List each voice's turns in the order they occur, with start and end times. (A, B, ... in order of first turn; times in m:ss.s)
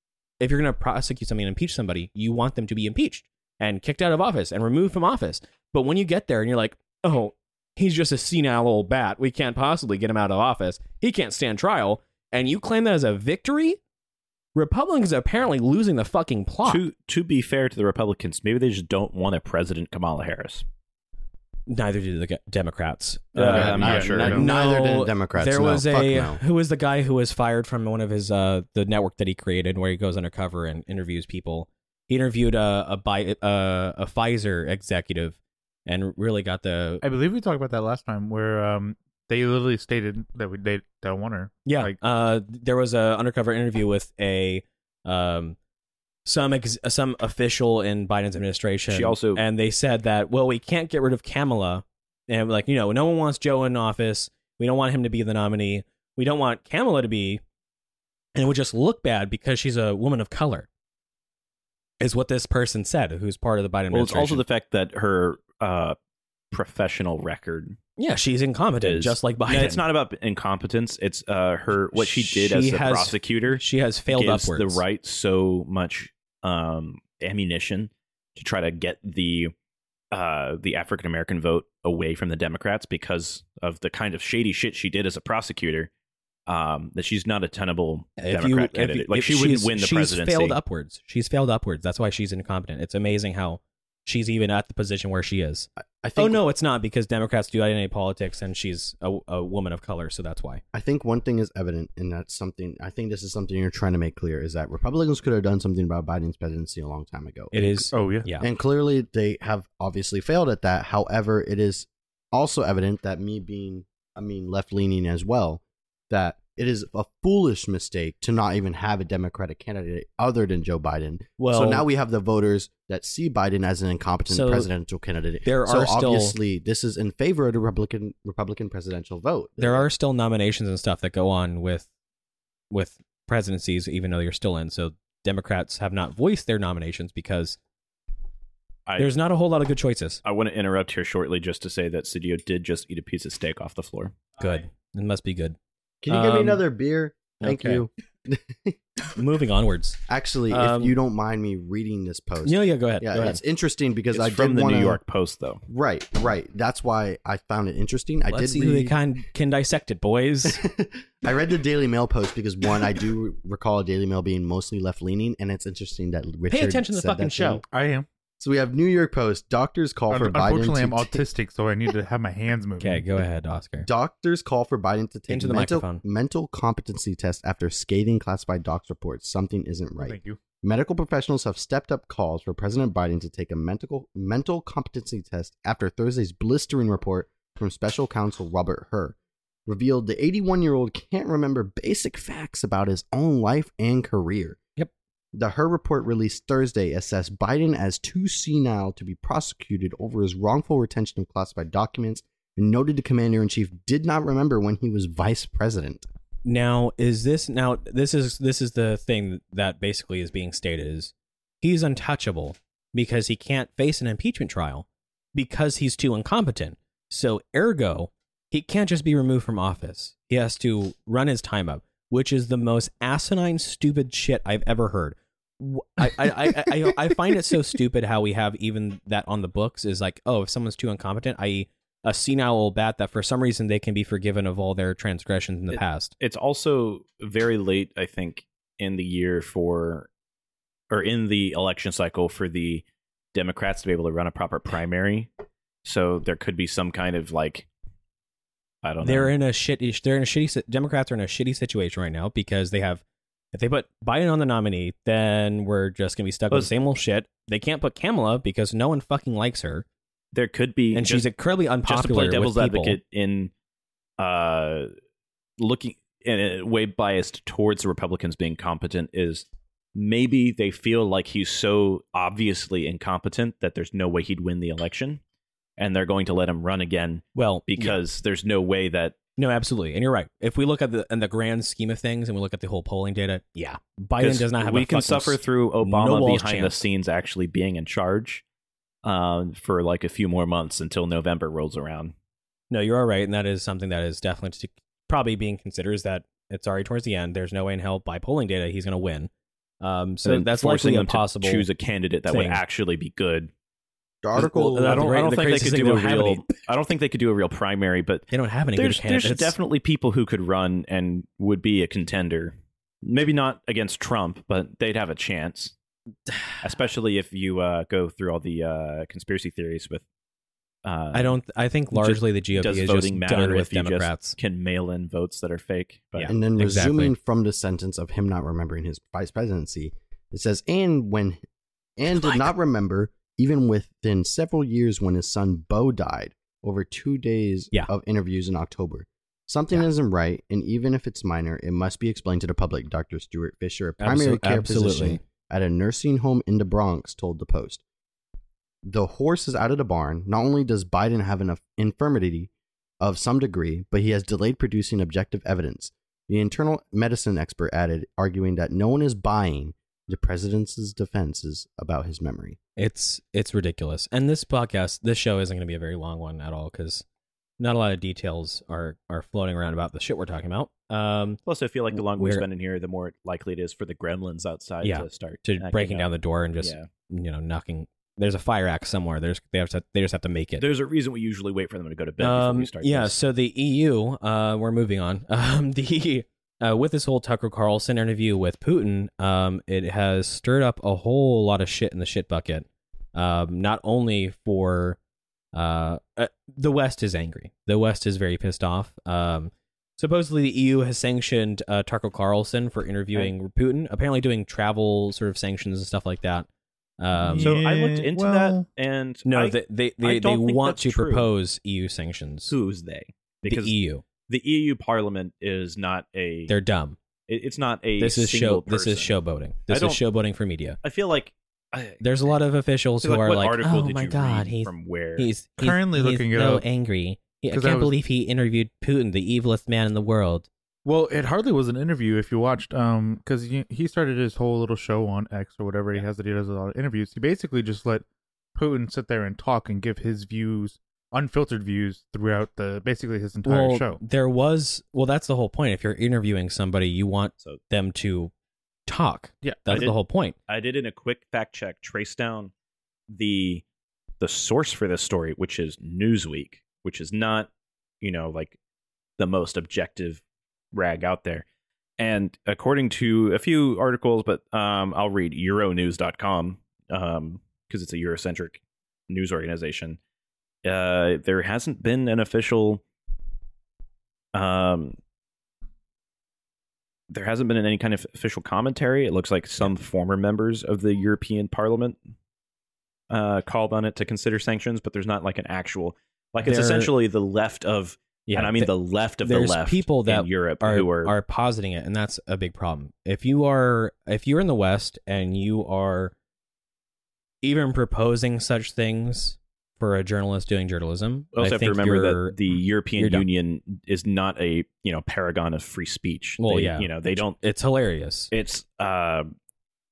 0:00.4-0:13.8 A
0:14.6-0:16.8 A
0:16.6-0:20.6 B
0:21.7-0:37.0 A
0:23.4-0:24.4 B
0:23.5-0:26.4 C
0:23.5-0:24.4 D
0:37.0-0:42.0 D
0:41.7-0:45.6 A
0:46.3-0:57.4 A
0:48.9-0:49.4 B
0:58.4-1:00.7 A
1:02.0-1:04.4 A
1:03.9-1:06.0 B
1:06.5-1:07.8 B
1:08.0-1:09.8 A
1:08.8-1:19.5 B
1:12.0-1:14.8 A
1:20.1-1:25.9 B
1:26.5-1:30.6 B
1:28.2-1:40.6 A
1:36.0-1:36.4 C
1:40.7-1:47.8 C
1:47.5-1:48.4 A
1:47.9-1:48.3 D
1:48.4-2:09.9 C
2:01.4-2:01.9 A
2:04.3-2:04.7 A
2:05.4-2:06.4 A
2:09.6-2:11.9 A
2:12.7-2:17.6 A
2:19.0-2:20.2 A
2:20.2-2:24.2 B
2:24.4-2:25.6 A
2:26.0-2:28.8 C
2:26.1-2:26.6 A
2:27.4-2:27.8 A
2:29.2-2:30.0 A
2:30.1-2:35.0 C
2:30.5-2:31.0 A
2:32.4-2:33.4 A
2:34.1-2:35.6 B
2:35.7-2:39.0 C
2:38.3-2:40.6 A
2:40.4-2:47.6 C
2:46.5-2:47.6 A
2:47.7-2:48.1 D
2:48.4-2:51.2 C
2:50.1-2:53.1 D
2:52.8-2:53.9 A
2:53.8-3:09.2 C
2:55.3-2:56.0 A
3:00.0-3:00.4 D
3:09.7-3:14.6 C
3:15.3-3:26.0 C
3:26.4-3:56.1 A
3:55.7-4:00.1 B
4:00.9-4:05.3 B
4:05.8-4:07.7 B
4:08.8-4:09.3 B
4:09.0-4:13.0 A
4:13.5-4:19.8 A
4:20.3-4:21.3 B
4:20.9-4:23.0 A
4:21.8-4:23.5 B
4:24.2-4:24.9 B
4:25.6-4:35.2 B
4:35.8-4:39.2 B
4:37.4-4:38.0 A
4:39.4-4:46.8 A
4:44.2-4:48.4 B
4:49.0-4:52.1 B
4:52.7-4:59.3 A
4:59.8-5:01.7 A
5:00.2-5:03.5 B
5:02.3-5:02.6 A
5:04.2-5:05.1 C
5:04.4-5:06.4 A
5:04.4-5:15.7 B
5:08.3-5:09.5 A
5:16.6-5:20.0 B
5:20.8-5:21.4 B
5:21.1-5:24.4 A
5:21.9-5:26.3 B
5:26.2-5:27.1 A
5:26.3-5:31.4 C
5:32.0-5:47.8 C
5:44.0-5:45.2 A
5:48.8-6:02.6 C
6:02.8-6:07.0 A
6:07.6-6:11.4 A
6:11.5-6:16.9 B
6:11.9-6:12.4 A
6:14.8-6:20.7 A
6:20.6-6:23.2 B
6:22.2-6:35.0 A
6:35.5-6:46.5 A
6:47.0-6:47.6 A
6:47.2-6:48.7 D
6:47.4-6:51.3 B
6:49.3-6:52.5 A
6:52.5-6:56.5 B
6:53.4-6:54.0 A
6:56.5-6:57.0 A
6:57.3-6:59.1 B
6:58.0-7:00.8 A
6:59.7-7:00.0 B
7:00.8-7:02.3 B
7:02.0-7:10.5 A
7:03.0-7:05.3 B
7:05.6-7:06.6 D
7:07.5-7:08.0 D
7:10.8-7:24.0 D
7:23.5-7:28.3 A
7:28.9-7:30.4 A
7:29.4-7:29.9 D
7:30.5-7:32.5 B
7:33.1-7:33.6 B
7:34.2-7:37.5 B
7:38.0-7:38.6 B
7:39.2-7:40.2 B
7:40.7-7:41.4 B
7:42.0-7:50.0 B
7:50.6-7:52.8 B
7:54.3-7:55.0 B
7:57.1-8:02.0 B
8:03.1-8:11.1 B
8:06.4-8:06.9 A
8:08.3-8:16.1 A
8:17.4-8:22.4 A
8:21.4-8:27.4 B
8:23.0-8:23.3 A
8:26.4-8:28.3 A
8:28.3-8:29.3 B